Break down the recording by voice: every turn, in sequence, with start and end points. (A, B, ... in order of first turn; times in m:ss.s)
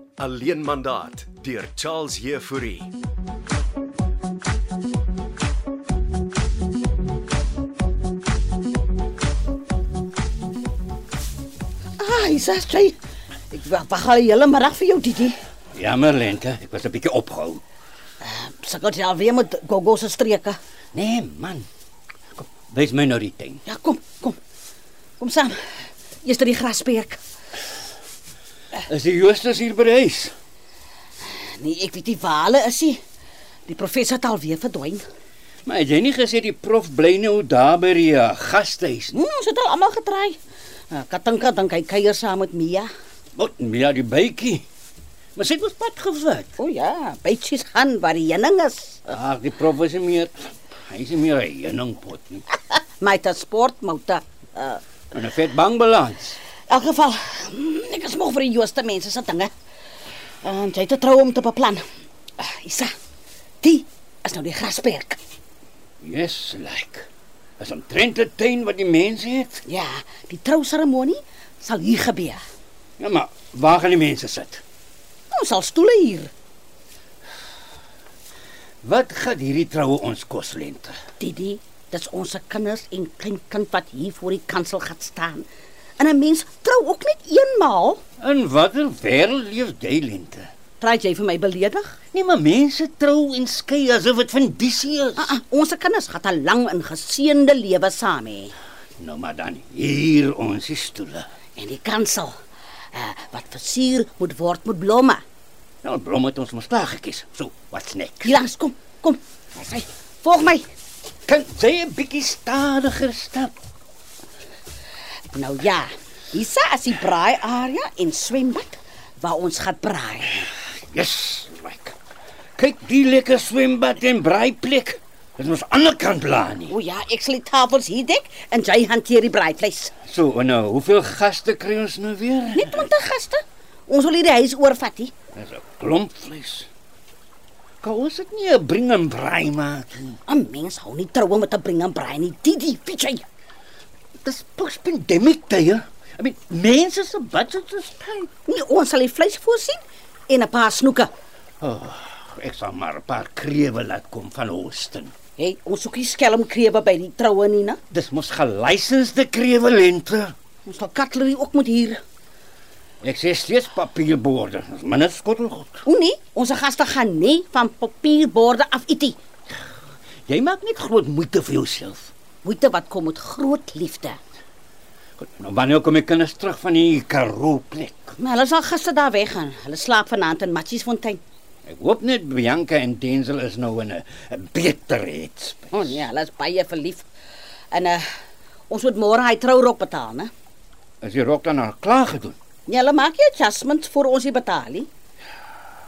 0:00.2-0:02.9 A
0:12.0-0:13.0 B
0:13.5-0:15.4 B
0:15.7-0:17.6 C
0:18.2-0:20.6 B
0:20.9-0:21.7 C
0:22.4-0:23.6 C
0:23.6-0:24.4 B
0:25.2-0:25.6 B
0:26.2-0:27.2 B
0:28.7-0:30.3 C
0:31.3-0:33.0 B
0:33.7-0:35.0 B
0:35.6-0:39.2 C
0:39.1-0:40.4 B
0:40.9-0:42.9 B
0:43.3-0:44.6 C
0:45.4-0:46.5 C
0:46.6-0:49.1 B
0:49.1-0:52.4 C
0:53.0-0:54.8 B
0:55.1-0:56.4 C
0:56.7-0:59.5 B
1:00.4-1:01.8 B
1:02.4-1:02.9 B
1:03.6-1:05.2 B
1:06.0-1:07.1 C
1:07.6-1:09.6 C
1:09.6-1:12.4 B
1:13.0-1:14.6 C
1:15.3-1:16.3 B
1:18.8-1:20.9 C
1:21.2-1:25.5 B
1:26.0-1:28.0 B
1:28.2-1:30.5 C
1:30.8-1:32.0 B
1:32.1-1:35.3 C
1:35.2-1:38.5 B
1:39.0-1:41.3 C
1:41.6-1:42.3 B
1:42.9-1:45.2 B
1:45.8-1:48.4 C
1:48.2-1:50.7 B
1:51.3-1:53.5 C
1:55.3-2:00.5 B
2:00.7-2:01.9 C
2:02.6-2:06.7 C
2:06.7-2:09.9 B
2:10.0-2:12.9 C
2:12.5-2:15.1 B
2:15.3-2:16.7 C
2:17.8-2:20.2 C
2:20.3-2:23.2 B
2:24.2-2:28.3 C
2:28.4-2:31.1 B
2:31.6-2:35.1 C
2:35.4-2:37.8 B
2:37.9-2:40.3 C
2:40.6-2:42.0 B
2:43.0-2:45.8 C
2:45.8-2:49.2 B
2:50.3-2:52.1 C
2:52.4-2:54.2 B
2:55.2-2:58.1 C
2:58.2-3:01.2 B
3:01.6-3:06.0 C
3:05.7-3:07.1 B
3:07.7-3:08.0 B
3:08.7-3:10.3 B
3:11.0-3:12.4 C
3:12.7-3:14.9 B